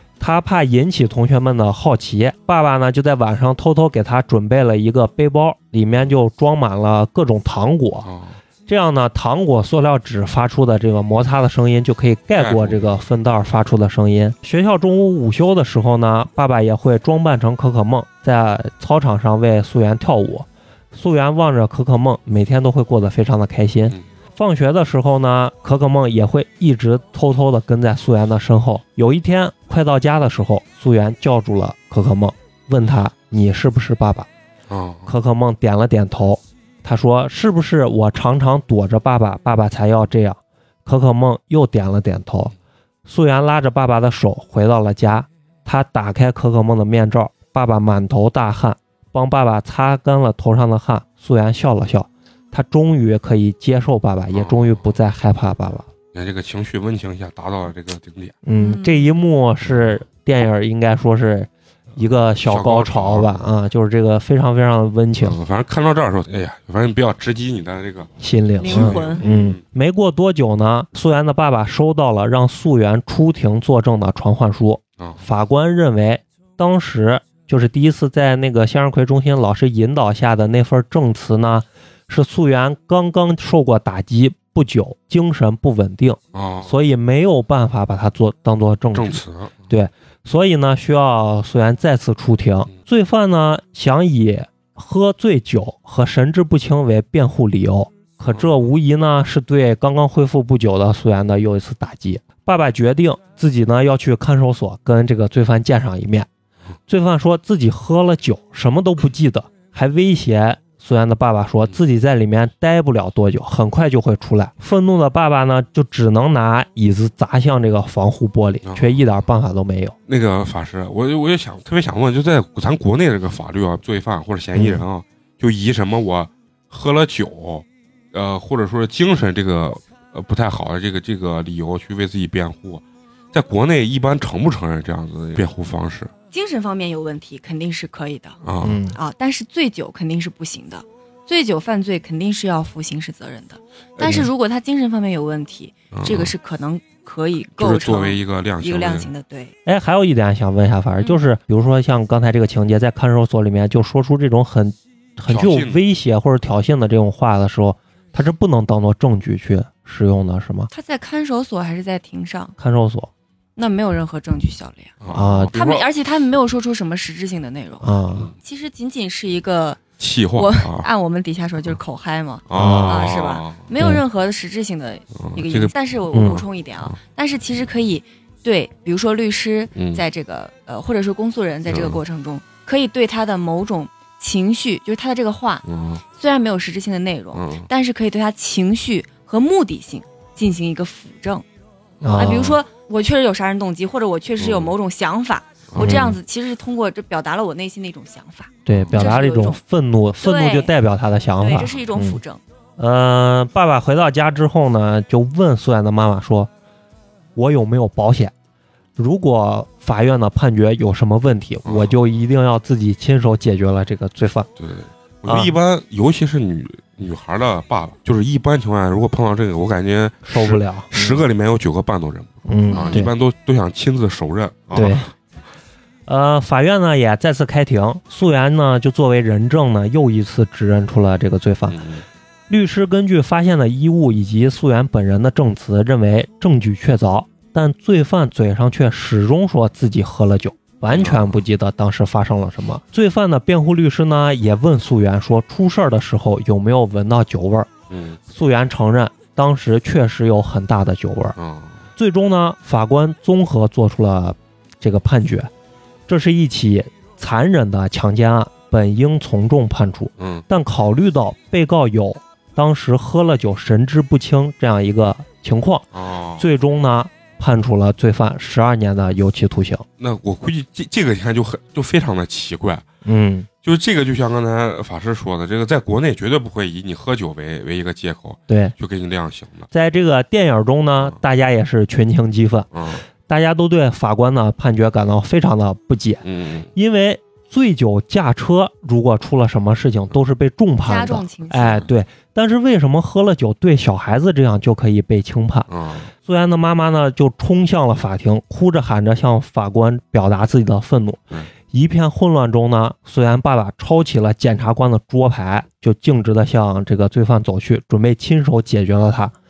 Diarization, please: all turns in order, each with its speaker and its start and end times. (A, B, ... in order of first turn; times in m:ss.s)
0:00.2-0:08.1 A
0:08.0-0:08.4 B
0:08.7-0:34.3 A
0:12.4-0:13.0 B
0:34.7-0:35.1 B
0:35.1-0:42.5 A
0:43.1-0:55.9 A
0:54.3-0:54.8 B
0:56.1-0:58.4 B
0:58.4-1:05.4 A
0:58.6-0:59.1 C
1:02.4-1:03.5 B
1:05.2-1:08.1 B
1:08.2-1:46.3 A
1:08.6-1:09.2 C
1:08.6-1:09.6 B
1:15.0-1:15.2 B
1:26.3-1:26.7 B
1:28.9-1:29.6 B
1:46.9-2:00.0 A
1:58.6-1:59.1 B
2:00.1-2:16.1 B
2:04.5-2:04.8 A
2:16.3-2:18.4 C
2:18.4-2:18.8 B
2:18.6-2:19.0 A
2:18.9-2:29.5 C
2:25.9-2:26.3 B
2:27.6-2:29.1 B
2:29.6-2:40.7 A
2:35.3-2:35.8 B
2:40.7-2:42.6 C
2:42.6-2:43.1 A
2:43.6-2:45.0 C
2:45.0-2:45.9 B
2:45.1-2:45.6 A
2:45.5-2:49.8 C
2:47.8-2:48.3 A
2:50.0-2:50.9 B
2:50.4-3:11.4 C
2:52.5-2:53.7 B
2:52.6-2:53.1 A
2:55.2-2:55.7 B
2:56.1-2:56.4 A
2:59.8-3:00.0 B
3:01.7-3:02.0 B
3:05.6-3:06.0 B
3:07.3-3:07.7 B
3:12.0-3:12.4 B
3:12.0-3:12.6 A
3:12.1-3:19.6 C
3:14.4-3:14.7 B
3:15.7-3:16.1 B
3:15.8-3:16.2 A
3:18.6-3:22.2 A
3:18.7-3:19.0 B
3:20.2-3:20.7 C
3:21.4-3:22.4 C
3:22.8-3:26.5 A
3:27.4-3:28.3 A
3:29.0-3:34.5 A
3:31.6-3:31.9 B
3:34.6-3:45.1 B
3:35.3-3:35.6 A
3:40.3-3:41.2 A
3:42.4-3:43.1 A
3:42.7-3:43.0 C
3:44.7-3:45.1 A
3:46.1-3:51.8 A
3:51.7-3:52.0 B
3:52.5-4:07.7 A
4:00.9-4:01.4 B
4:07.9-4:08.2 B
4:08.3-4:11.4 A
4:11.4-4:11.9 B
4:12.0-4:15.5 A
4:16.1-4:25.9 A
4:20.2-4:20.4 B
4:25.9-4:26.5 B
4:26.4-4:29.8 A
4:30.0-4:32.8 B
4:33.0-4:33.5 A
4:33.6-4:39.7 B
4:38.5-4:38.7 A
4:39.7-4:42.7 A
4:42.7-4:43.0 B
4:43.3-4:55.7 A
4:46.2-4:46.7 B
4:50.9-4:51.9 C
4:55.7-4:56.1 B
4:56.2-5:09.4 A